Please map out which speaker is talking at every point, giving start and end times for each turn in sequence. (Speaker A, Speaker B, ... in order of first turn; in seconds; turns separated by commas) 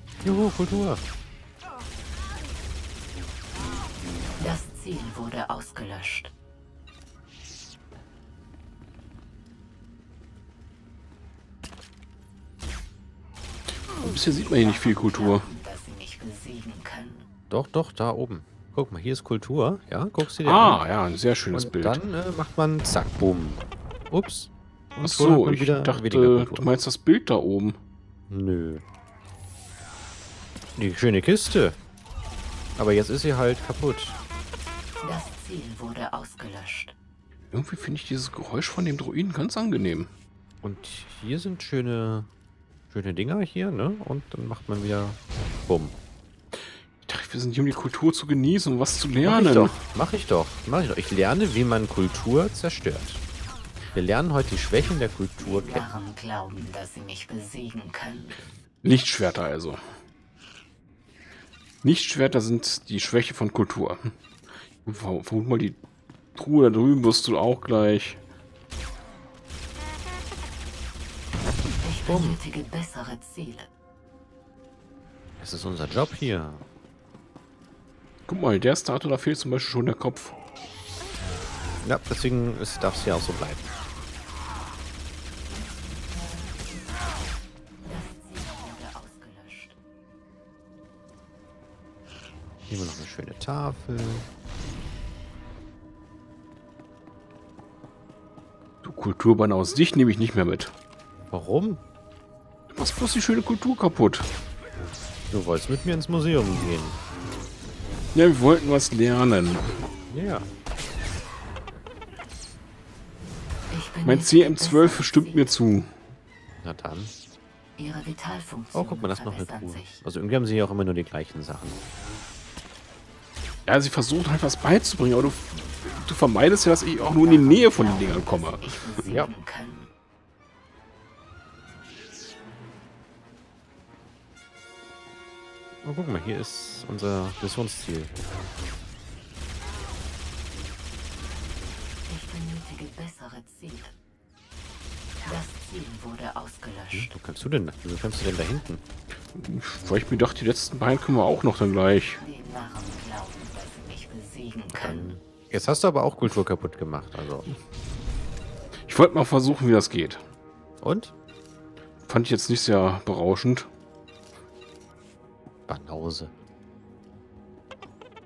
Speaker A: 0.2-1.0, Speaker B: 4.4-6.3, Speaker C: 13.9-15.5, Speaker B: 14.4-17.2, Speaker A: 17.5-20.8, Speaker C: 20.4-22.0, Speaker A: 21.5-26.7, Speaker C: 25.0-27.8, Speaker A: 28.3-28.8, Speaker A: 30.8-31.8, Speaker A: 32.8-34.2, Speaker B: 35.0-36.9, Speaker C: 37.5-40.1, Speaker A: 40.6-42.3, Speaker A: 42.9-46.0, Speaker C: 47.0-49.8, Speaker A: 49.2-53.2, Speaker A: 53.9-55.9, Speaker B: 55.4-58.4, Speaker C: 58.8-59.8, Speaker C: 61.8-64.1, Speaker C: 64.8-65.8, Speaker C: 66.3-68.2, Speaker B: 71.8-73.7, Speaker A: 72.1-72.4, Speaker A: 75.4-76.6, Speaker C: 78.3-80.4, Speaker A: 81.8-83.7, Speaker B: 87.8-89.8, Speaker A: 92.7-94.3, Speaker C: 98.8-100.7, Speaker A: 101.3-101.8, Speaker C: 102.7-104.3, Speaker A: 105.3-107.0, Speaker C: 108.1-109.8, Speaker A: 110.1-110.5, Speaker B: 113.7-115.5, Speaker C: 114.0-115.9, Speaker A: 116.6-117.1, Speaker B: 117.8-120.0, Speaker A: 118.7-121.8, Speaker C: 123.7-128.8, Speaker B: 127.2-129.9, Speaker A: 129.1-129.3, Speaker A: 135.8-138.1, Speaker B: 142.1-143.9, Speaker B: 145.3-147.1, Speaker A: 146.9-148.8, Speaker C: 149.3-152.2, Speaker B: 152.2-155.1, Speaker A: 154.7-157.5, Speaker C: 158.8-160.2, Speaker A: 160.8-161.1, Speaker C: 162.0-163.7, Speaker A: 165.7-166.3